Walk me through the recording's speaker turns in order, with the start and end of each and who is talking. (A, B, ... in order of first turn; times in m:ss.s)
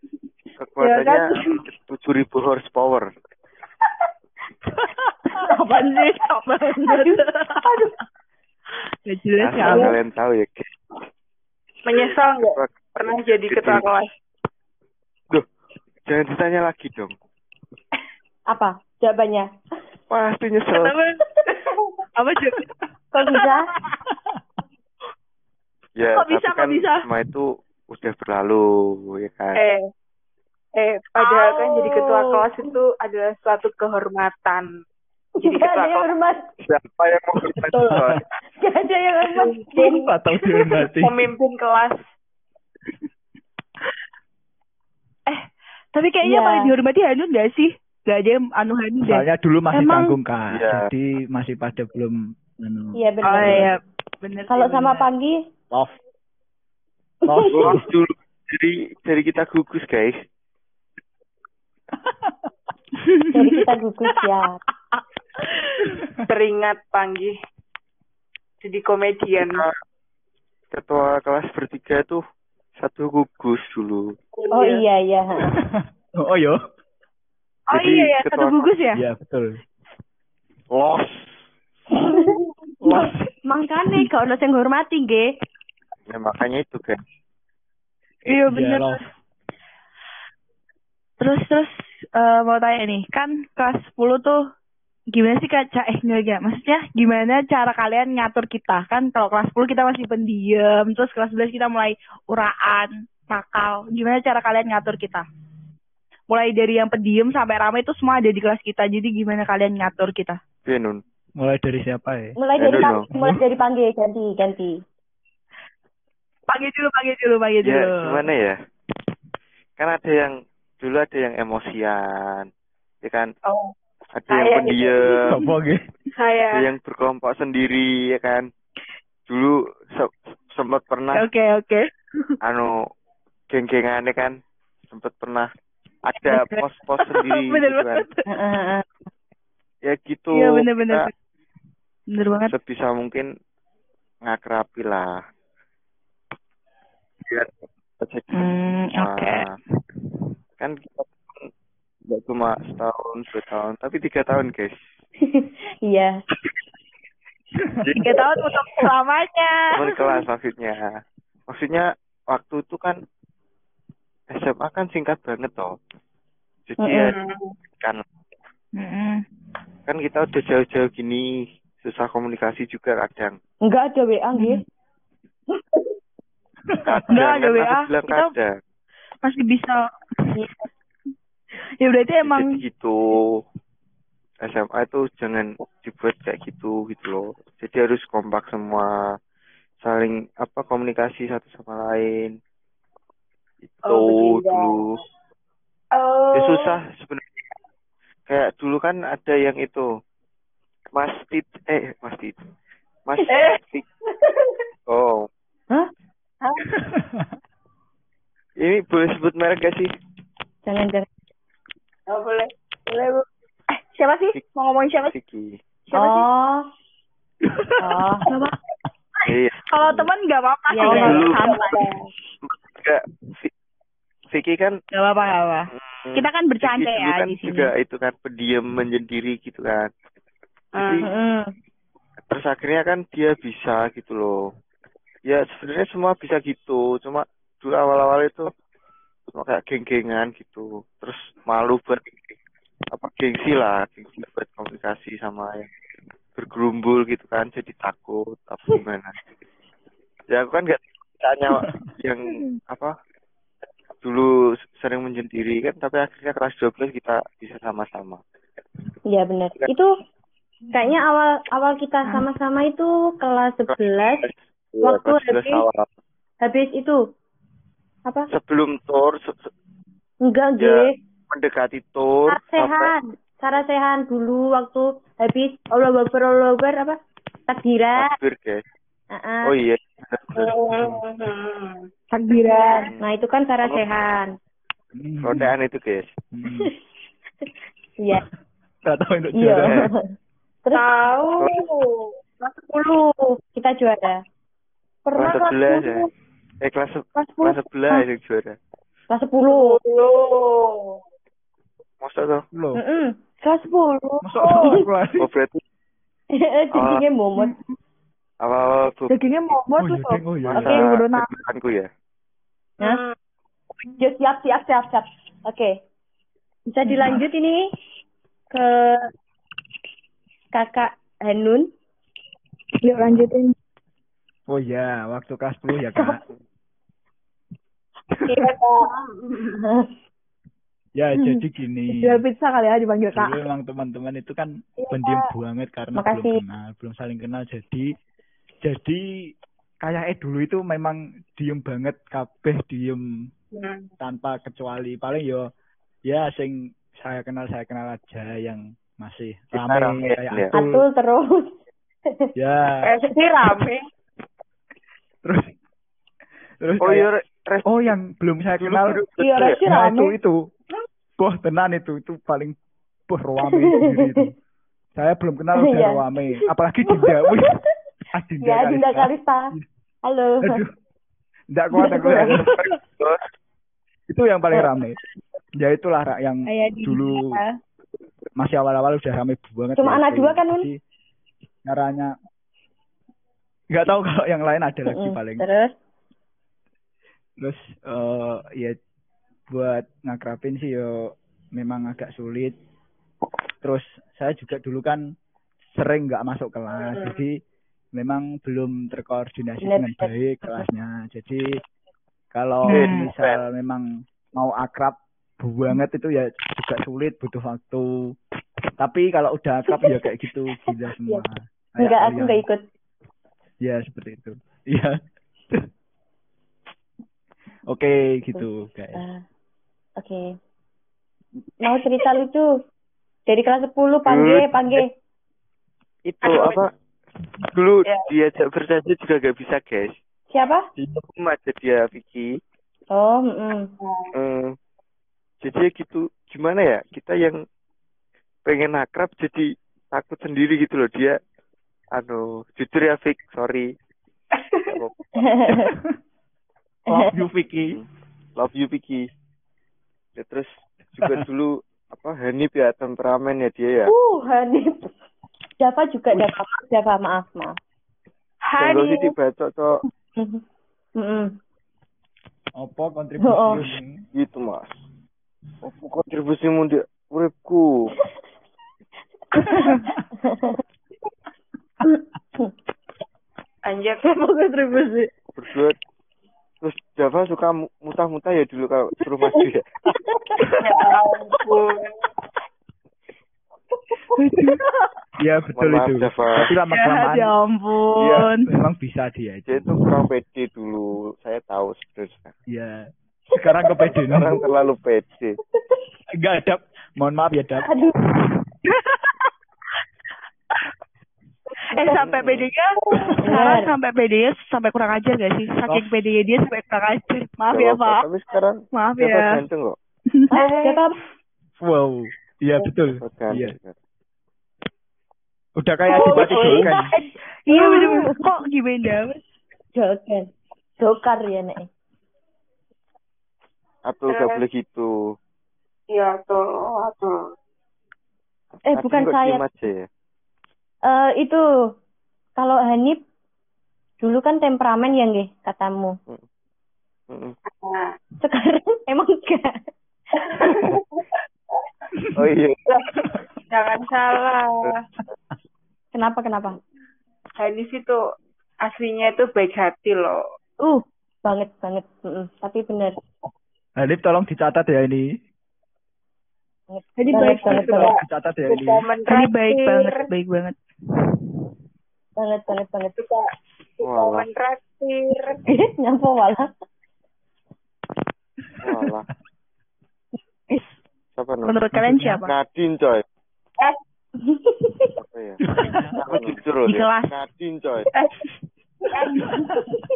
0:00.6-0:03.1 A
0:00.8-0:01.6 B
0:05.4-0:07.7 C
0:09.1-0:10.0 C
0:09.4-0:10.7 A
0:09.7-0:09.9 B
0:11.8-0:14.1 B
0:11.9-0:13.9 A
0:16.1-0:17.1 A
0:18.5-0:19.5 D
0:20.1-0:21.0 A
0:20.7-0:21.2 C
0:21.5-0:22.0 B
0:22.2-0:22.7 C
0:23.1-0:23.7 D
0:23.4-0:23.9 C
0:26.0-0:29.6 A
0:26.1-0:27.0 C
0:29.6-0:29.9 B
0:30.8-0:34.7 B
0:31.2-0:32.7 D
0:35.4-0:36.5 D
0:35.5-0:36.1 A
0:36.6-0:38.2 A
0:37.6-0:38.0 D
0:38.6-0:39.9 D
0:39.4-0:40.1 B
0:39.8-0:41.3 E
0:40.7-0:42.1 B
0:45.3-0:50.2 C
0:46.2-0:46.7 D
0:49.0-0:53.7 E
0:50.5-0:50.9 A
0:53.0-0:53.8 D
0:53.2-0:55.1 C
0:54.5-0:55.4 D
0:57.3-0:57.9 E
0:57.3-0:57.8 D
0:57.5-1:00.2 A
1:03.0-1:03.7 C
1:03.3-1:04.6 D
1:05.0-1:06.0 C
1:06.3-1:07.3 B
1:08.6-1:09.7 B
1:09.4-1:09.7 A
1:10.7-1:12.2 A
1:12.8-1:14.2 A
1:14.4-1:14.8 B
1:14.5-1:15.5 D
1:15.7-1:16.6 E
1:17.7-1:19.0 C
1:17.7-1:18.6 A
1:18.9-1:19.6 E
1:20.7-1:21.4 A
1:21.9-1:22.2 D
1:22.8-1:23.3 E
1:22.9-1:25.3 D
1:26.1-1:27.0 A
1:28.3-1:29.1 C
1:28.5-1:29.0 E
1:31.2-1:34.4 C
1:35.1-1:45.3 C
1:46.3-1:50.4 C
1:50.6-1:51.0 A
1:51.4-1:53.4 E
1:52.4-1:54.8 D
1:52.6-1:53.1 A
1:56.5-1:58.3 C
1:57.6-1:58.6 A
1:59.8-2:02.5 A
2:03.0-2:03.3 A
2:03.5-2:03.7 B
2:04.2-2:05.1 A
2:04.3-2:05.3 B
2:05.3-2:05.9 E
2:06.1-2:06.7 B
2:06.5-2:08.5 A
2:09.3-2:11.3 A
2:11.2-2:12.3 C
2:12.4-2:12.8 A
2:13.5-2:14.4 A
2:14.9-2:15.5 A
2:16.0-2:18.1 A
2:16.2-2:18.3 C
2:18.3-2:18.9 D
2:19.9-2:21.1 A
2:20.3-2:21.1 C
2:22.1-2:22.5 C
2:22.5-2:23.3 A
2:24.3-2:25.1 A
2:27.3-2:29.5 A
2:28.4-2:29.4 C
2:30.6-2:31.5 A
2:32.1-2:34.8 A
2:35.2-2:36.2 D
2:37.8-2:38.2 A
2:38.0-2:40.1 C
2:39.7-2:40.9 A
2:41.5-2:43.0 A
2:44.3-2:45.7 A
2:46.7-2:47.1 A
2:46.8-2:47.1 D
2:47.1-2:47.5 B
2:48.8-2:49.2 C
2:49.9-2:53.4 A
2:53.7-2:54.6 D
2:54.4-2:54.6 C
2:56.8-2:58.5 A
2:57.0-2:58.3 C
2:59.2-3:00.6 C
3:01.8-3:02.6 C
3:02.2-3:03.3 A
3:04.4-3:09.0 A
3:09.8-3:12.4 A
3:13.6-3:14.9 A
3:13.8-3:14.8 B
3:16.0-3:16.8 B
3:16.3-3:17.5 A
3:18.3-3:19.9 A
3:21.0-3:22.4 A
3:23.1-3:23.8 A
3:23.3-3:23.6 B
3:24.2-3:24.6 B
3:24.9-3:25.3 A
3:26.8-3:27.3 E
3:28.6-3:29.9 A
3:30.6-3:31.1 D
3:32.1-3:32.5 B
3:32.9-3:33.2 C
3:33.7-3:35.1 C
3:35.0-3:35.6 A
3:35.9-3:36.3 C
3:35.9-3:36.6 D
3:37.8-3:38.3 D
3:38.3-3:38.6 C
3:39.3-3:40.1 A
3:39.7-3:41.9 C
3:40.7-3:41.3 D
3:40.8-3:42.1 B
3:40.8-3:41.4 A
3:42.5-3:43.5 A
3:44.3-3:44.8 A
3:44.9-3:47.7 C
3:45.8-3:49.9 A
3:50.7-3:51.1 B
3:50.8-3:51.1 A
3:51.0-3:51.5 D
3:52.3-3:54.3 A
3:55.2-3:58.5 A
3:59.3-4:02.4 A
4:02.9-4:05.7 A
4:06.4-4:09.2 A
4:10.3-4:12.9 A
4:14.0-4:18.2 A
4:19.1-4:19.9 D
4:20.7-4:24.3 D
4:23.7-4:25.8 A
4:24.8-4:25.6 D
4:26.4-4:27.0 D
4:28.1-4:28.3 D
4:28.3-4:29.5 A
4:30.2-4:30.9 D
4:30.6-4:32.9 A
4:32.3-4:38.1 D
4:38.0-4:38.6 A
4:39.1-4:39.5 D
4:39.4-4:40.5 A
4:40.4-4:41.8 B
4:42.1-4:42.9 C
4:42.8-4:43.1 A
4:43.0-4:44.3 D
4:45.0-4:45.5 E
4:45.2-4:46.1 A
4:46.3-4:46.7 E
4:48.0-4:48.2 D
4:48.8-4:49.8 E
4:49.4-4:50.1 D
4:49.6-4:49.9 A
4:50.7-4:51.8 B
4:52.4-4:54.2 D
4:55.1-4:56.0 D
4:55.1-4:56.0 A
4:56.6-4:58.6 A
4:57.2-4:57.6 C
4:59.1-4:59.8 D
4:59.4-5:01.0 B
5:02.0-5:02.4 A
5:02.5-5:02.8 E
5:02.8-5:03.2 D
5:03.4-5:04.8 C
5:04.2-5:05.3 E
5:05.2-5:05.6 A
5:06.3-5:07.5 D
5:06.7-5:07.0 A
5:07.4-5:07.7 C
5:08.4-5:09.1 A
5:09.1-5:11.4 C
5:09.8-5:10.8 E
5:10.4-5:11.9 A
5:12.8-5:13.2 B
5:13.9-5:15.8 D
5:16.7-5:17.7 D
5:16.9-5:17.2 C
5:18.5-5:19.1 D
5:20.5-5:21.7 D
5:22.8-5:23.5 C
5:24.5-5:26.2 E
5:28.3-5:28.7 C
5:29.6-5:29.9 D
5:31.0-5:32.2 E
5:31.2-5:33.4 C
5:33.1-5:37.9 E
5:34.9-5:35.2 C
5:36.0-5:36.4 D
5:38.6-5:39.0 E
5:39.8-5:43.0 E
5:43.5-5:43.9 B
5:44.0-5:45.5 E
5:46.1-5:50.8 E
5:49.5-5:50.5 A
5:50.5-5:52.3 D
5:52.4-5:52.8 E
5:52.8-5:53.8 B
5:55.2-5:55.5 E
5:56.6-5:57.1 E
5:56.8-5:58.0 A
5:57.6-6:00.4 E
5:58.6-5:59.6 A
5:59.2-6:00.0 C
6:01.2-6:02.6 E
6:03.1-6:04.3 E
6:03.5-6:04.2 D
6:05.0-6:07.6 E
6:05.6-6:06.0 D
6:06.9-6:07.5 D
6:08.1-6:09.6 E
6:08.4-6:09.6 D
6:10.1-6:10.6 D
6:10.4-6:10.7 E
6:11.5-6:12.6 E
6:11.8-6:12.4 D
6:12.6-6:13.2 A
6:14.1-6:15.0 E
6:15.6-6:17.4 E
6:16.5-6:17.5 C
6:18.4-6:20.8 E
6:19.8-6:20.7 D
6:21.7-6:22.2 E
6:23.7-6:25.4 E
6:24.9-6:25.8 D
6:27.4-6:28.8 E
6:29.5-6:32.6 E
6:33.6-6:35.0 E
6:35.8-6:37.4 E
6:36.8-6:37.2 B
6:38.0-6:41.6 E
6:39.6-6:40.6 D
6:42.3-6:47.9 E
6:42.7-6:43.1 C
6:42.7-6:43.4 A
6:48.8-6:52.4 E
6:51.8-6:52.6 D
6:53.6-6:55.0 E
6:57.7-6:59.0 E
6:58.4-6:59.2 D
7:00.0-7:00.3 D
7:01.6-7:02.5 D
7:03.3-7:04.9 D
7:04.1-7:04.8 A
7:06.0-7:06.7 A
7:06.2-7:06.6 B
7:07.4-7:09.9 A
7:10.3-7:10.6 D
7:10.8-7:12.3 A
7:12.9-7:13.7 D
7:13.8-7:14.1 B
7:14.1-7:14.6 A
7:15.4-7:17.4 A
7:18.5-7:21.2 A
7:22.0-7:23.7 A
7:24.4-7:24.7 B
7:24.6-7:25.4 A
7:25.2-7:25.7 D
7:25.5-7:25.9 E
7:26.9-7:27.8 E
7:28.4-7:29.0 A
7:30.2-7:33.9 A
7:33.9-7:34.9 D
7:35.6-7:37.5 D
7:38.4-7:39.1 B
7:38.6-7:39.8 A
7:40.2-7:40.4 D
7:41.0-7:41.4 D
7:42.6-7:44.0 E
7:43.2-7:43.6 D
7:43.5-7:44.7 A
7:45.6-7:47.7 A
7:49.4-7:50.6 D
7:51.9-7:52.5 D
7:53.6-7:54.0 B
7:54.0-7:55.1 D
7:55.4-7:55.8 A
7:56.6-7:59.6 A
8:00.6-8:02.0 B
8:04.2-8:04.6 C
8:05.2-8:07.3 E
8:05.6-8:06.5 A
8:06.7-8:08.5 C
8:08.0-8:08.3 A
8:08.3-8:09.8 E
8:09.5-8:12.3 A
8:12.5-8:14.4 E
8:14.0-8:15.4 A
8:16.2-8:17.7 E
8:17.6-8:18.0 D
8:18.7-8:19.3 C
8:21.7-8:28.0 C
8:22.0-8:22.5 A
8:23.2-8:23.7 D
8:25.7-8:26.0 E
8:27.5-8:29.8 A
8:28.7-8:29.3 C
8:30.3-8:31.0 D
8:30.3-8:30.8 B
8:31.6-8:33.6 E
8:33.0-8:33.8 A
8:35.6-8:36.9 E
8:35.9-8:37.1 B
8:37.5-8:39.3 C
8:37.5-8:38.3 D
8:39.8-8:41.7 D
8:43.8-8:44.9 A
8:44.1-8:44.4 B
8:45.9-8:47.2 B
8:48.7-8:49.4 D
8:48.7-8:49.9 A
8:50.8-8:51.4 D
8:52.4-8:53.0 D
8:54.0-8:56.0 D
8:57.1-8:57.4 A
8:57.5-8:58.0 B
8:58.2-8:59.7 D
9:00.2-9:01.0 B
9:02.2-9:02.8 A
9:03.5-9:04.9 B
9:05.9-9:06.6 D
9:07.4-9:08.0 B
9:08.6-9:10.2 B
9:10.6-9:13.0 D
9:13.8-9:15.0 E
9:16.7-9:17.9 D
9:17.0-9:17.9 C
9:17.1-9:17.9 B
9:17.5-9:18.8 E
9:18.5-9:20.1 B
9:19.1-9:20.6 C
9:22.2-9:23.0 D
9:23.0-9:23.3 B
9:23.8-9:25.4 B
9:23.8-9:24.3 A
9:25.5-9:26.5 D
9:28.6-9:29.1 A
9:31.2-9:31.7 A
9:31.5-9:32.3 C
9:31.7-9:32.2 E
9:32.2-9:33.0 A
9:34.2-9:34.9 D
9:35.0-9:35.4 A
9:35.4-9:36.4 E
9:36.0-9:37.9 A
9:36.7-9:37.1 C
9:37.9-9:38.3 B
9:38.8-9:39.3 B
9:39.2-9:39.6 E